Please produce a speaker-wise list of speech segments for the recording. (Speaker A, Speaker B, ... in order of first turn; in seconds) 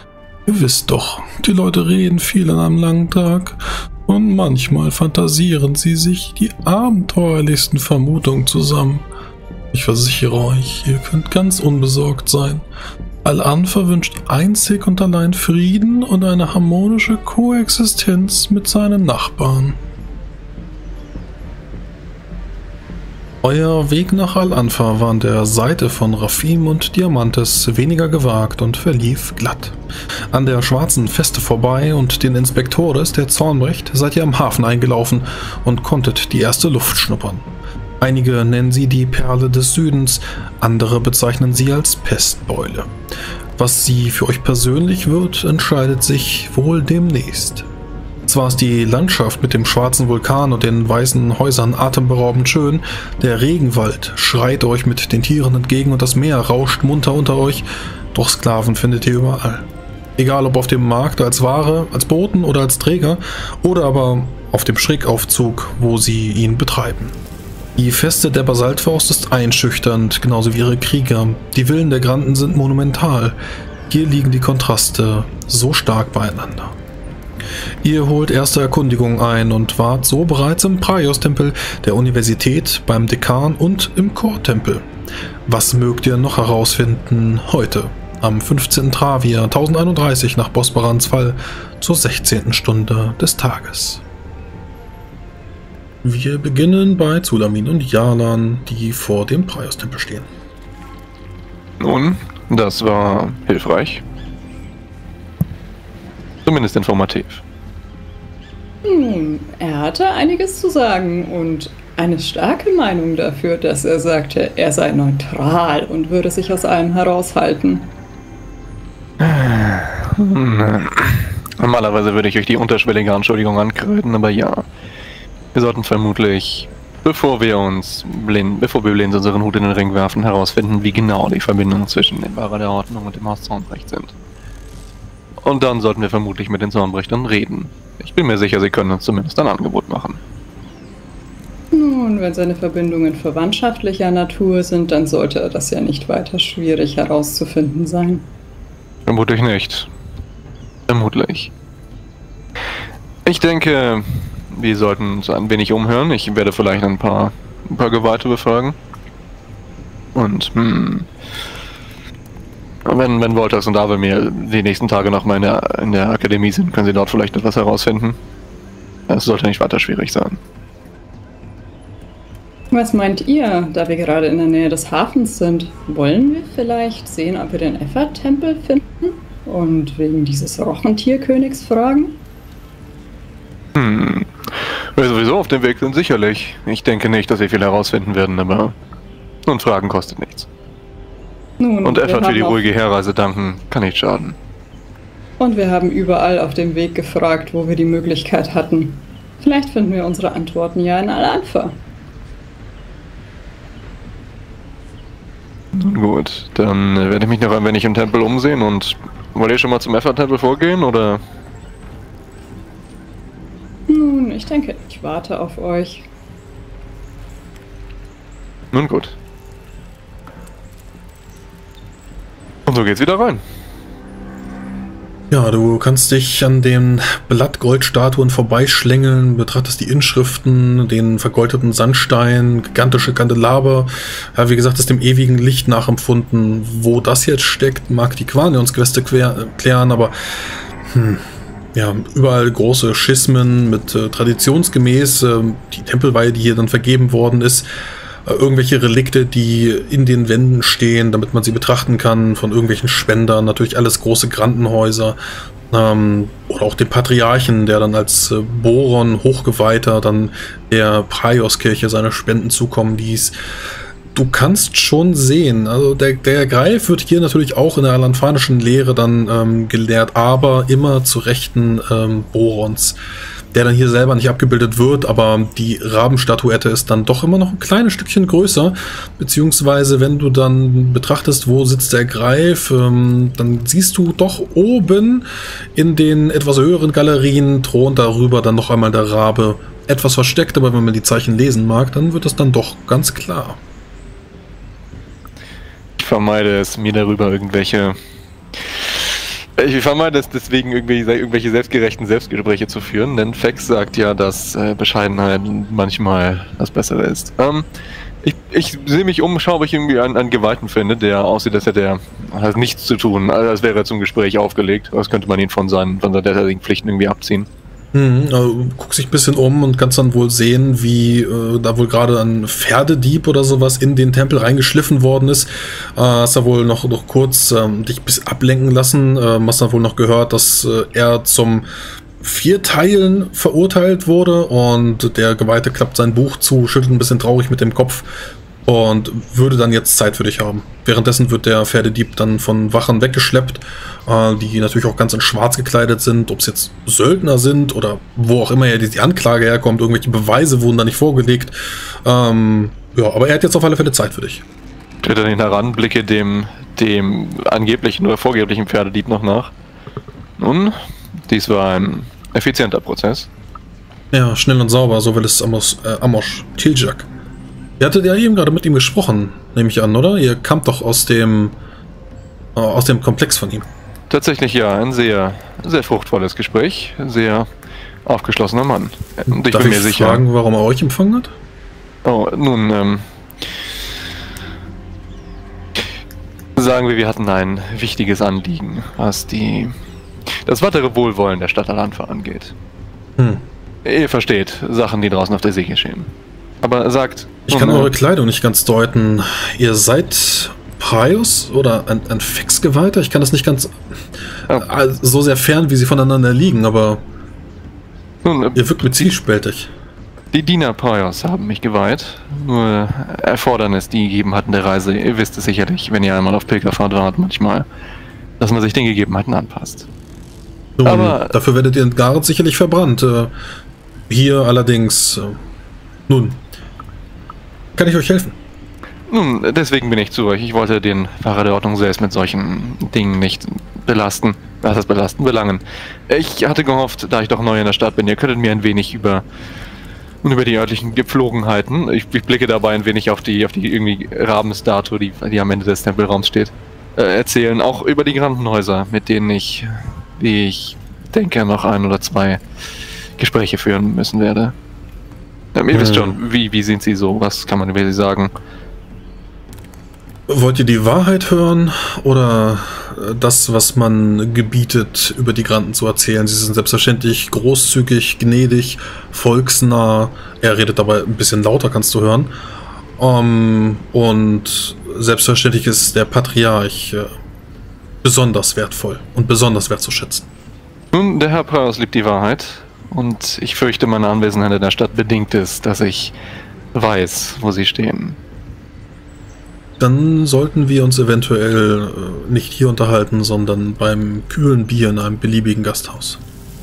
Speaker A: 0.5-9.1, 9.7-12.6, 13.2-19.8, 23.4-29.8, 30.3-37.5, 38.0-42.9, 43.6-47.7, 48.3-67.2, 67.8-73.4, 73.9-76.8, 77.8-84.9, 85.5-94.0, 96.0-100.3, 225.3-240.1, 240.9-247.7, 248.3-255.2, 255.7-263.4, 264.1-273.0, 273.5-293.6, 317.9-331.7, 332.2-338.1, 338.6-354.4, 364.1-367.1, 367.8-371.6, 372.6-373.6, 379.3-381.3, 393.2-393.4, 397.5-403.8, 404.5-407.0, 408.6-409.7, 420.8-423.3, 424.1-425.4, 426.1-426.4, 427.8-428.4, 455.7-456.2, 460.3-472.3, 473.0-477.1, 478.0-480.3, 489.8-496.2
Speaker B: 101.8-104.0, 106.5-107.4, 119.2-124.7, 125.5-134.1, 135.4-140.2, 149.1-149.9, 150.9-151.5, 153.2-158.8, 160.2-161.1, 162.9-168.2, 169.1-170.4, 183.8-188.8, 189.5-190.5, 191.8-194.4, 205.7-211.2, 218.7-219.2, 222.7-223.4, 296.0-298.0, 298.7-307.6, 308.2-317.5, 355.0-359.5, 360.4-360.8, 361.3-363.3, 374.1-377.5, 378.1-380.2, 382.1-383.1, 386.6-389.7, 390.4-392.5, 393.9-396.1, 396.6-397.9, 408.2-409.1, 410.3-417.7, 418.4-419.9, 420.8-421.3, 429.1-439.2, 440.2-452.4, 453.2-454.5, 455.5-458.3, 480.9-486.1, 486.7-488.2
Speaker C: 108.8-117.9, 141.7-148.3, 172.7-182.2, 191.6-192.6, 195.4-201.8, 213.9-216.1